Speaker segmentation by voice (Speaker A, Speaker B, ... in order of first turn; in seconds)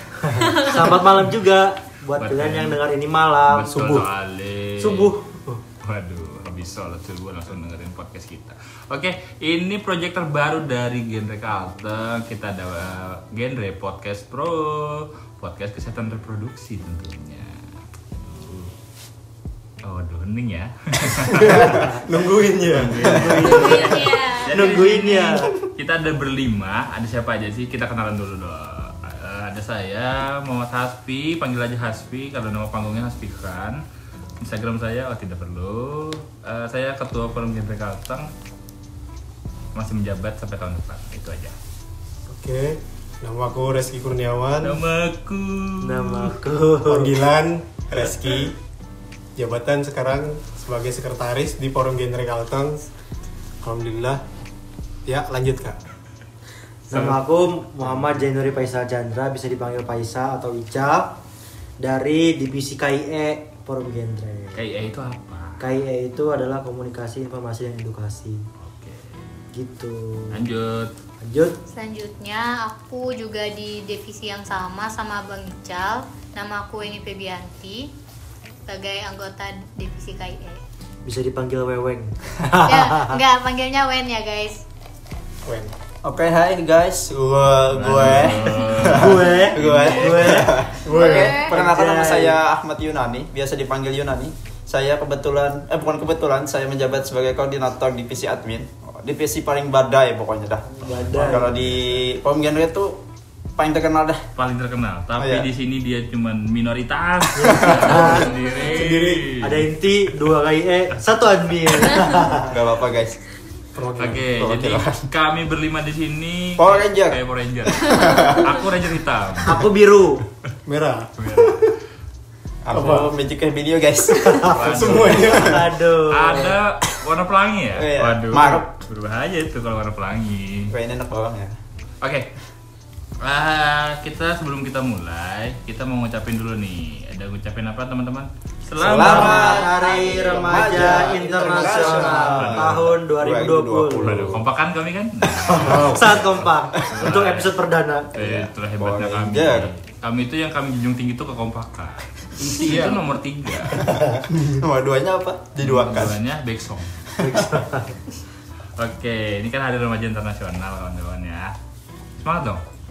Speaker A: 0.2-4.0, 4.8-5.6, 23.0-24.0, 24.5-25.5, 45.8-47.1, 56.9-61.2, 61.8-64.6, 65.6-68.5, 69.5-70.4, 71.2-71.6, 81.0-83.2, 88.3-90.5, 91.4-92.4, 100.8-101.5, 107.4-108.3, 109.3-112.5, 119.4-120.2, 124.2-124.5, 125.2-126.6, 138.9-144.3, 145.5-148.1, 153.9-154.2, 157.2-157.9
Speaker B: 0.5-0.8, 23.4-24.9, 71.7-77.9, 78.7-80.6, 82.6-84.6, 90.9-91.5, 108.4-108.8, 139.4-140.5
Speaker C: 2.2-2.8, 3.5-5.1, 5.8-17.6, 18.1-18.7, 19.8-21.9, 22.6-33.8, 34.4-38.3, 39.8-41.5, 44.6-46.3, 56.9-57.2, 64.6-65.6, 68.6-69.3, 70.3-70.9, 87.7-90.5, 100.8-102.1, 104.4-109.7, 114.0-119.6, 121.2-121.7, 124.5-130.7, 132.0-132.3, 133.2-139.6, 142.2-142.8, 144.1-147.6, 148.1-153.9, 155.6-157.1, 158.8-161.5, 162.2-162.6
Speaker D: 21.3-23.7, 42.3-44.8, 46.8-48.6, 49.4-52.8, 53.6-54.2, 55.1-55.8, 85.5-85.7, 90.8-91.5, 108.7-109.3, 113.7-114.4, 120.7-121.8, 122.7-123.1, 124.6-125.7, 138.8-139.3, 141.7-142.2, 145.6-146.1, 152.6-153.0, 154.3-154.6
Speaker E: 21.5-21.8, 86.0-103.0, 103.6-104.2, 105.2-105.5, 107.5-108.0, 112.5-113.2, 114.4-115.0, 116.6-118.5, 122.6-125.4, 127.7-128.7, 130.7-131.6, 138.8-144.4, 148.2-149.7, 153.9-156.2